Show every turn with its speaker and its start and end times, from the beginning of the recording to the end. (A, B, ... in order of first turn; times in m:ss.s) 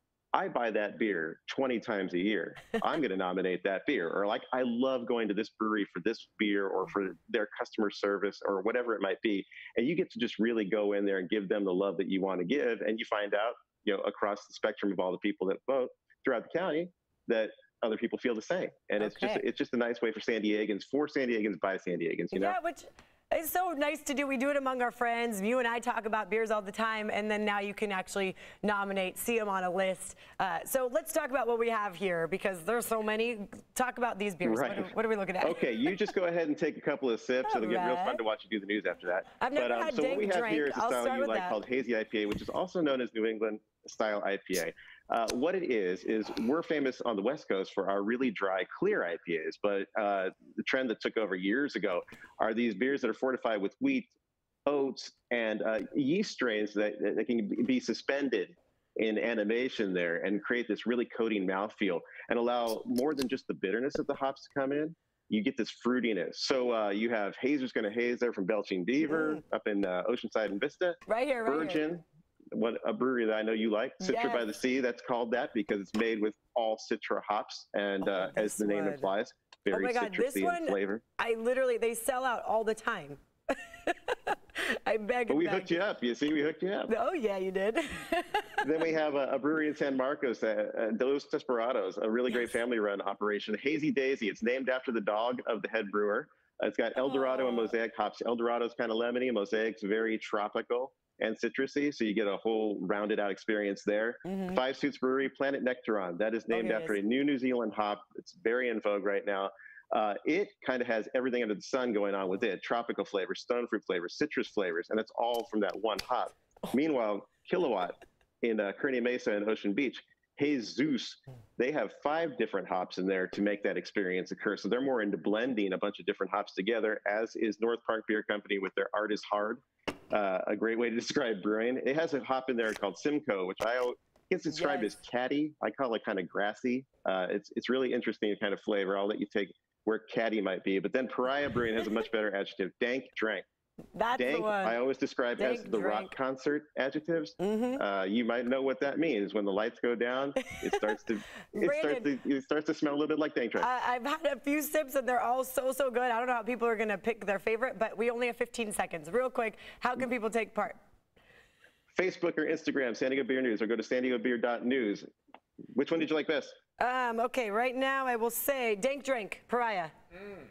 0:00.3-0:22.6 A
0:19.0-0:19.4 B
0:22.3-0:35.6 B
0:34.4-0:54.1 A
0:37.5-0:38.2 B
0:39.4-0:41.6 B
0:54.6-1:21.0 A
1:09.1-1:09.4 B
1:11.1-1:11.8 B
1:14.0-1:14.4 B
1:18.0-1:19.1 B
1:19.7-1:25.8 B
1:25.3-1:26.9 A
1:26.9-1:28.7 B
1:28.6-2:23.4 A
1:37.0-1:37.7 B
1:44.2-1:44.6 B
1:46.5-1:47.0 B
2:14.5-2:15.0 B
2:24.0-2:24.8 B
2:24.2-2:33.7 A
2:25.4-2:26.1 B
2:27.4-2:27.8 B
2:31.5-2:32.1 B
2:33.6-2:40.8 B
2:41.9-2:45.0 A
2:45.7-2:46.5 A
2:46.8-2:49.9 B